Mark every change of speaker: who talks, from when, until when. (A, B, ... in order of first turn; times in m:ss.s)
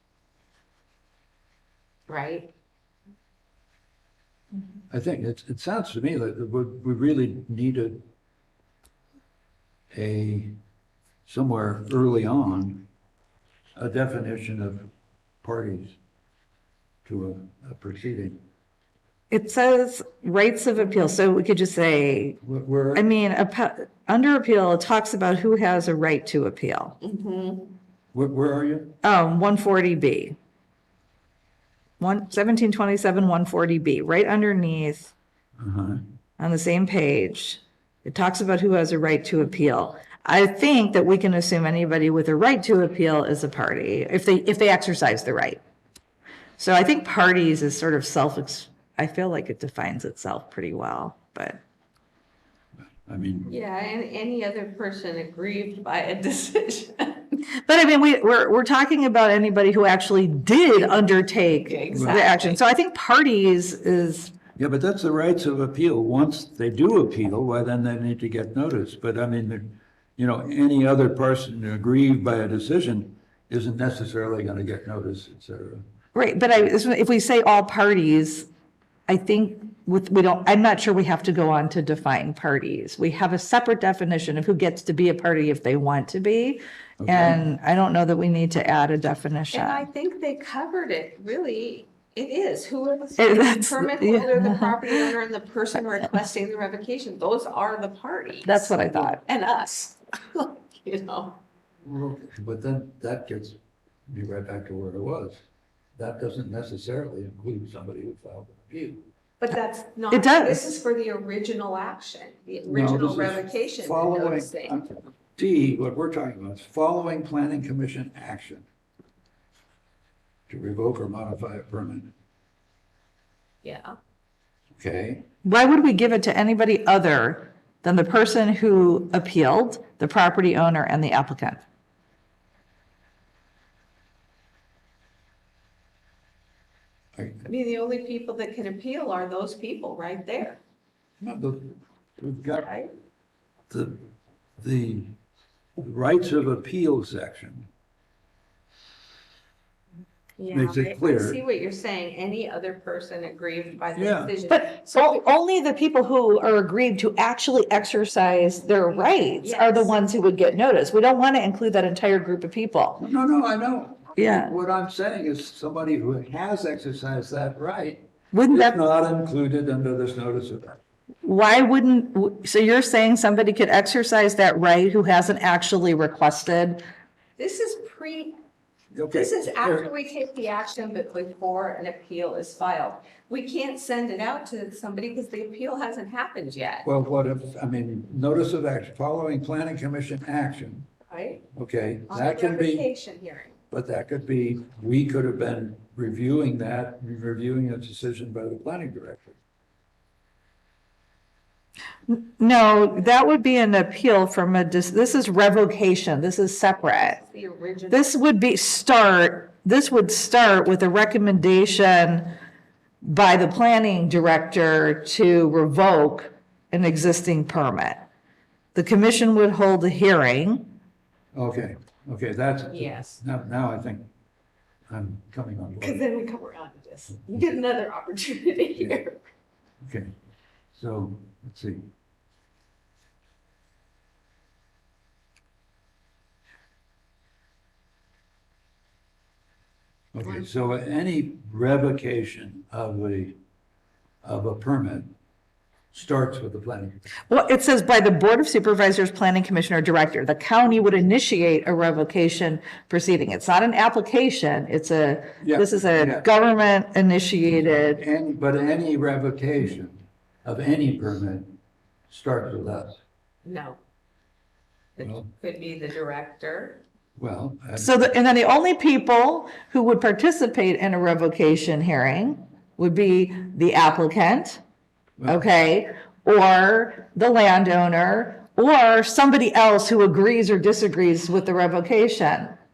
0:02.1-0:02.5 A
0:04.9-0:08.0 B
0:09.9-0:10.5 B
0:11.2-0:12.9 B
0:13.8-0:14.9 B
0:15.4-0:16.0 B
0:17.0-0:18.4 B
0:19.3-0:22.4 C
0:22.4-0:23.1 B
0:22.9-0:27.0 C
0:27.0-0:27.7 A
0:28.1-0:29.0 B
0:29.0-0:30.4 C
0:32.0-0:35.1 C
0:35.6-0:36.0 B
0:36.4-0:45.6 C
0:46.6-0:51.6 C
0:53.1-0:53.5 B
0:53.5-0:57.4 A
0:57.6-1:04.4 C
1:01.6-1:02.6 A
1:01.9-1:02.2 B
1:04.6-1:15.8 B
1:16.1-1:18.5 C
1:19.1-1:29.8 C
1:27.0-1:27.4 B
1:29.5-1:41.4 A
1:33.2-1:35.0 C
1:38.4-1:39.2 C
1:41.8-1:43.6 B
1:44.1-1:45.4 B
1:46.0-1:49.1 B
1:49.4-1:54.7 A
1:50.1-1:50.7 C
1:52.7-1:58.6 B
2:00.5-2:02.1 B
2:03.6-2:04.0 A
2:04.8-2:05.2 B
2:05.4-2:11.6 C
2:17.2-2:17.4 B
2:17.4-2:20.6 A
2:21.2-2:22.7 B
2:22.6-2:22.9 A
2:23.7-2:24.0 B
2:24.6-2:25.1 B
2:25.8-2:27.7 B
2:30.4-2:35.2 A
2:30.5-2:31.4 B
2:33.9-2:34.3 B
2:34.5-2:43.0 C
2:39.4-2:40.0 A
2:43.0-2:50.8 B
2:44.2-2:44.5 C
2:48.3-2:48.8 C
2:51.2-2:56.8 C
2:57.4-2:58.4 A
2:58.9-2:59.9 B
2:59.1-3:06.9 A
3:06.8-3:10.8 B
3:11.1-3:11.4 A
3:11.5-3:12.8 B
3:12.1-3:13.6 A
3:13.7-3:19.4 B
3:22.1-3:27.2 C
3:26.9-3:28.1 A
3:27.9-3:32.3 C
3:33.0-3:38.0 C
3:38.7-3:40.7 C
3:41.3-3:44.1 B
3:42.7-3:43.2 A
3:44.9-3:46.0 B
3:45.8-3:49.2 A
3:49.8-3:50.1 B
3:50.7-3:51.9 B
4:00.1-4:03.4 B
4:04.2-4:05.1 B
4:05.9-4:07.1 B
4:07.3-4:18.0 C
4:15.4-4:16.3 B
4:17.9-4:21.6 B
4:22.1-4:23.0 B
4:23.4-4:23.8 A
4:25.0-4:26.8 A
4:25.0-4:25.3 B
4:27.2-4:28.1 B
4:27.8-4:34.6 C
4:35.2-4:35.4 B
4:35.2-4:42.5 C